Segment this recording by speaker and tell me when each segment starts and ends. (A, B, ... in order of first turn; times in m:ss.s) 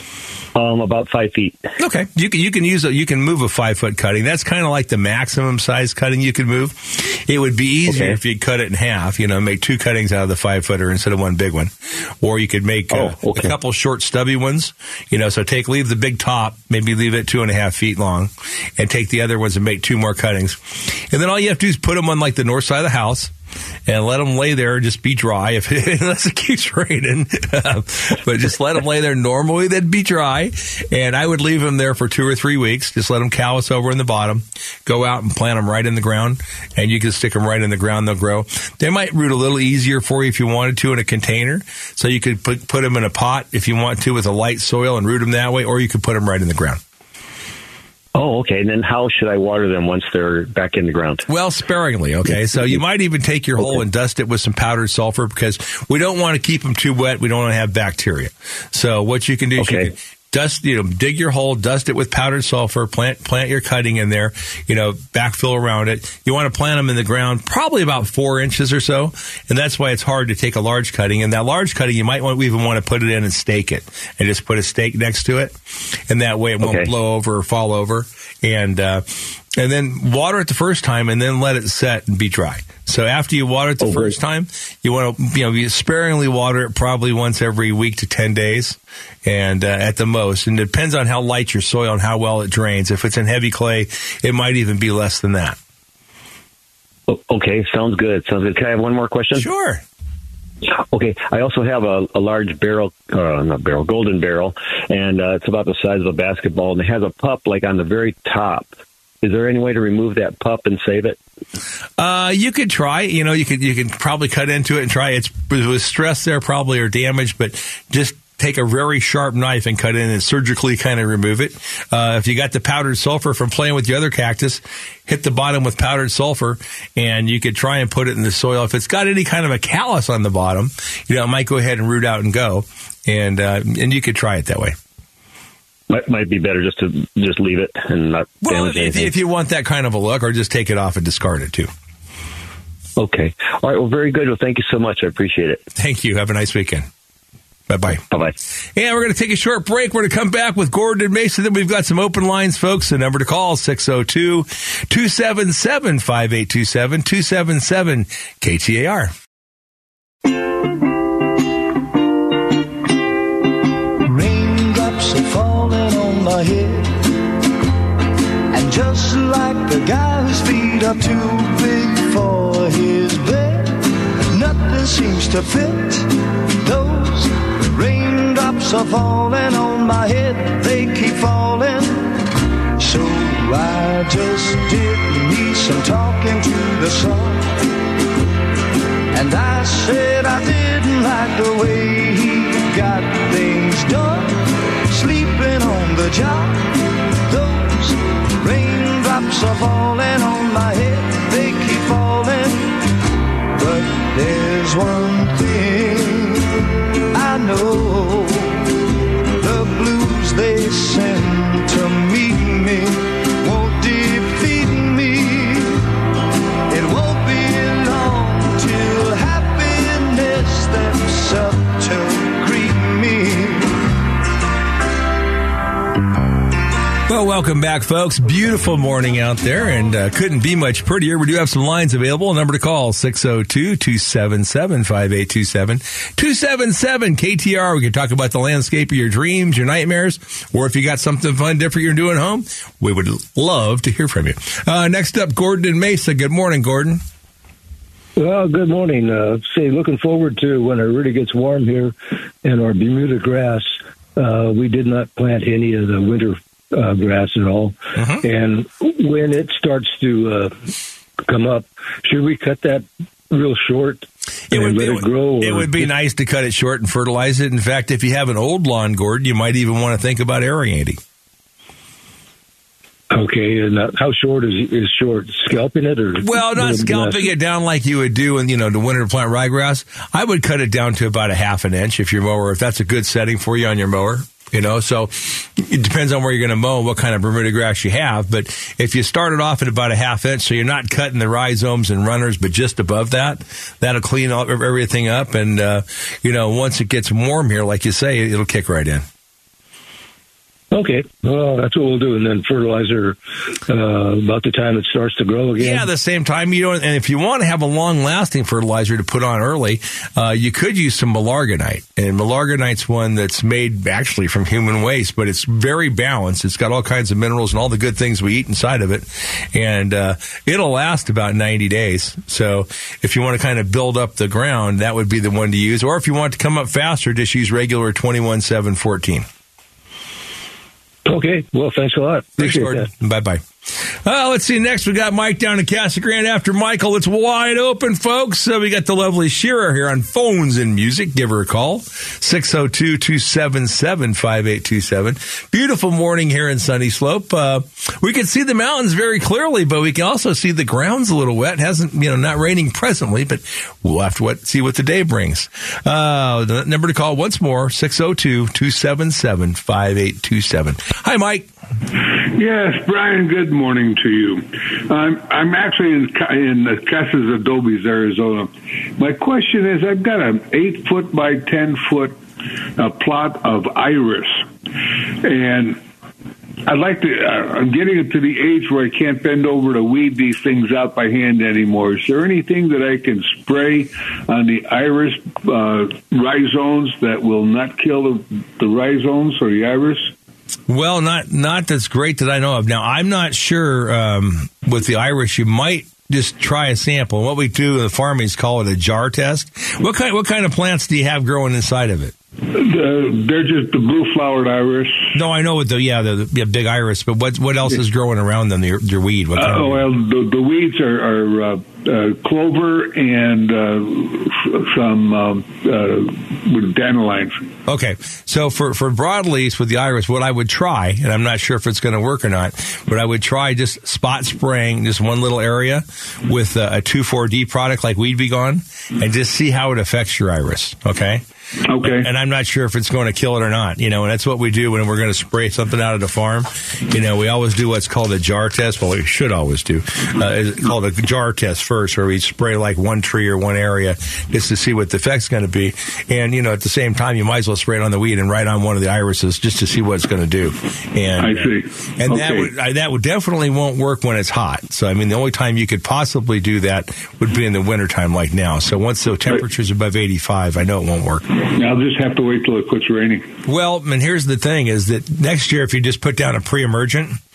0:00.5-0:01.6 A
0:01.8-0:23.3 B
0:07.9-0:08.2 A
0:12.9-0:13.6 A
0:23.9-0:46.8 B
0:48.1-0:51.2 A
0:51.3-1:15.5 B
0:52.2-0:52.8 A
0:59.6-0:59.9 A
1:16.1-1:19.0 B
1:16.6-1:16.9 A
1:19.6-1:35.6 B
1:23.8-1:24.2 A
1:37.1-1:39.5 A
1:39.4-1:39.8 B
1:40.8-1:48.7 A
1:49.2-1:51.2 A
1:52.0-2:14.7 B
2:15.9-2:19.1 A
2:18.4-2:21.7 B
2:23.0-2:25.6 A
2:25.8-2:26.8 B
2:27.7-2:28.0 B
2:28.8-2:39.1 B
2:44.0-2:47.1 C
2:48.5-3:02.1 C
3:02.8-3:07.7 C
3:09.1-3:22.8 C
3:23.5-3:26.6 C
3:27.1-3:28.6 C
3:29.4-3:35.9 C
3:36.7-3:43.8 C
3:47.1-4:07.0 B
4:08.2-4:20.5 D
4:18.0-4:18.2 B
4:21.3-4:25.9 D
4:24.5-4:31.0 B
4:33.1-4:37.3 D
4:36.2-4:59.0 B
5:00.7-5:05.9 D
5:05.6-5:29.2 B
5:31.0-5:32.9 D
5:32.4-5:33.4 B
5:34.0-6:01.5 B
6:02.3-6:12.2 E
6:12.8-6:14.5 E
6:15.2-6:15.8 E
6:16.6-6:30.1 E
6:30.7-6:42.1 B
6:42.5-6:45.1 E
6:45.1-6:49.8 B
6:49.4-6:57.4 E
6:57.7-7:11.2 B
7:11.7-7:12.1 E
7:11.8-7:41.2 B
7:31.2-7:32.5 E
7:41.4-7:43.3 E
7:43.4-7:47.2 B